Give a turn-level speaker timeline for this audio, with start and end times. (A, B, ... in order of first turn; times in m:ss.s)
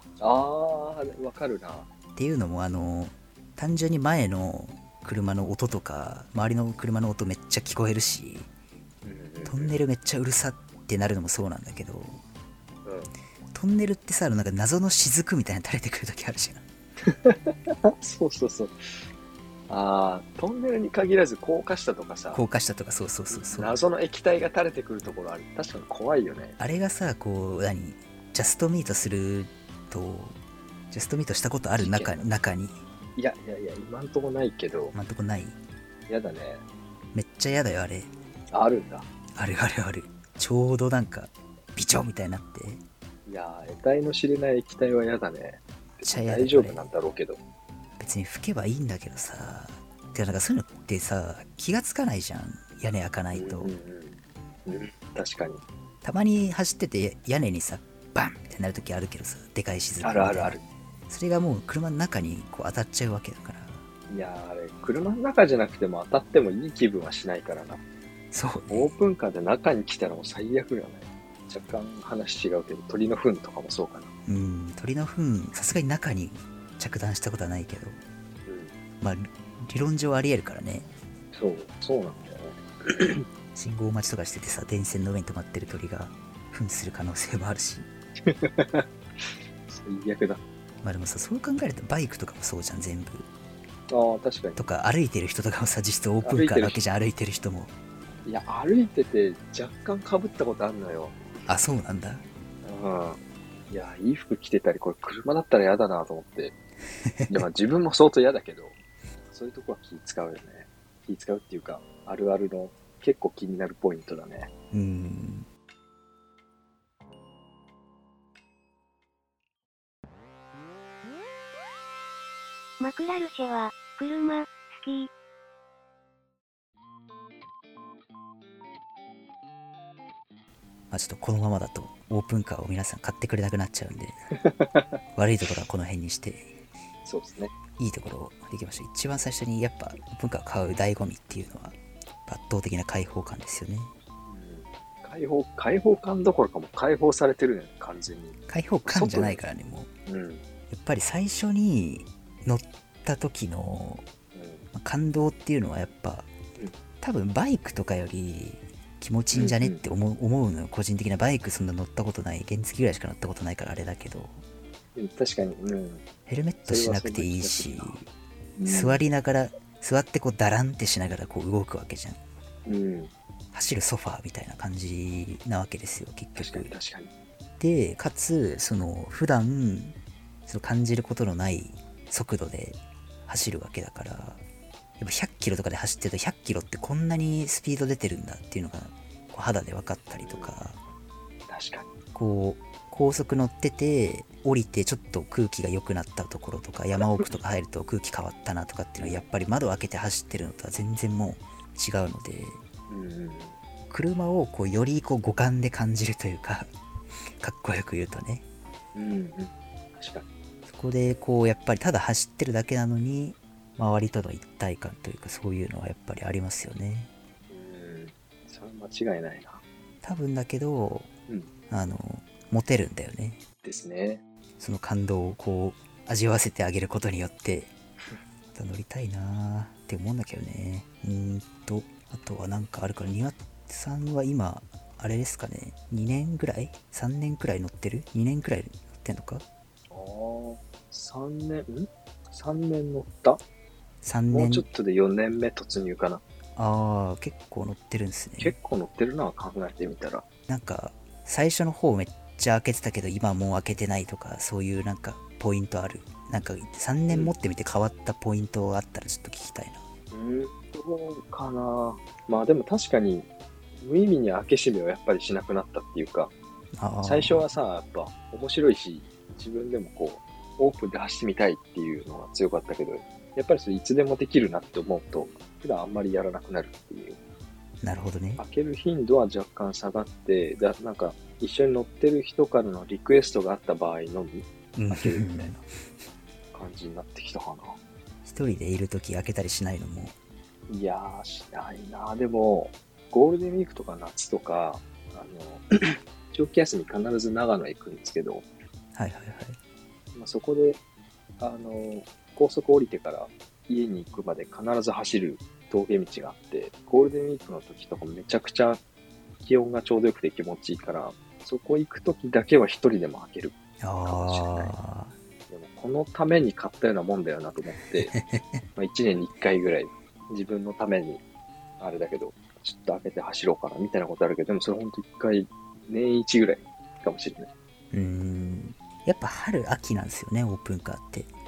0:00.2-0:01.9 A
0:02.2-0:08.5 B
0:09.0-0:09.8 A
0:09.4-0:12.2 B
0:12.8-0:13.1 A
0:13.5-0:16.6 B
0:17.0-0:19.0 A
0:19.7-0:22.4 A
0:22.3-0:23.8 B
0:23.3-0:26.6 A
0:26.6-0:30.4 B
0:30.9-0:32.8 B
0:31.8-0:32.2 A
0:33.2-0:34.9 A
0:34.9-0:35.6 B
0:36.1-0:36.6 A
0:37.1-0:38.1 B
0:38.5-0:39.1 A
0:39.4-0:42.8 B
0:43.2-0:47.4 A
0:46.0-0:46.9 B
0:48.0-0:53.7 B
0:53.3-0:55.6 A
0:56.0-1:03.8 B
1:00.0-1:00.6 A
1:04.1-1:07.8 A
1:08.3-1:08.9 B
1:08.7-1:14.1 A
1:14.2-1:18.0 B
1:18.5-1:18.7 A
1:19.0-1:20.9 B
1:21.3-1:23.2 A
1:23.5-1:27.9 B
1:28.2-1:30.4 A
1:30.8-1:33.3 B
1:33.9-1:34.6 A
1:34.6-1:37.7 B
1:36.2-1:36.8 A
1:38.2-1:41.2 A
1:41.5-1:42.2 B
1:42.6-1:46.6 A
1:47.0-1:47.4 B
1:47.3-1:54.5 A
1:54.7-1:55.5 B
2:02.8-2:05.1 C
2:10.9-2:14.2 B
2:14.3-2:15.0 A
2:15.1-2:16.6 B
2:17.0-2:17.5 A
2:17.8-2:23.9 B
2:24.3-2:29.4 A
2:28.5-2:29.9 B
2:30.0-2:30.4 A
2:30.7-2:34.0 B
2:34.3-2:34.7 A
2:34.7-2:36.3 B
2:37.0-2:44.4 B
2:39.3-2:39.8 A
2:44.9-2:46.0 A
2:46.3-2:48.1 B
2:46.6-2:48.0 A
2:48.6-2:49.0 A
2:48.6-2:52.2 B
2:52.6-2:53.1 A
2:53.5-2:56.7 B
2:56.4-2:57.1 A
2:57.6-3:04.4 B
3:05.0-3:10.8 B
3:10.2-3:10.6 A
3:11.5-3:11.9 A
3:12.1-3:22.6 B
3:19.0-3:19.2 A
3:22.9-3:23.6 A
3:23.9-3:26.7 B
3:27.4-3:28.4 B
3:28.9-3:30.3 A
3:30.6-3:37.1 B
3:37.5-3:39.6 A
3:40.0-3:41.1 B
3:41.7-3:43.4 B
3:43.6-3:44.2 A
3:44.6-3:47.7 B
3:48.5-3:59.4 B
3:59.9-4:03.4 A
4:04.0-4:04.6 B
4:04.3-4:06.2 A
4:06.6-4:08.6 B
4:08.4-4:10.2 A
4:10.5-4:19.8 B
4:17.1-4:17.3 A
4:20.1-4:26.3 A
4:26.8-4:27.5 B
4:27.0-4:37.2 A
4:37.8-4:38.4 B
4:38.4-4:45.5 A
4:44.7-4:45.6 B
4:46.5-4:47.8 A
4:48.2-4:50.1 B
4:50.7-4:58.4 A
4:58.9-4:59.6 B
5:00.1-5:00.8 A
5:01.4-5:08.8 A
5:09.4-5:14.7 A
5:13.8-5:15.1 B
5:15.5-5:18.1 A
5:18.1-5:18.6 B
5:18.8-5:21.2 A
5:21.8-5:27.5 A
5:27.9-5:31.3 B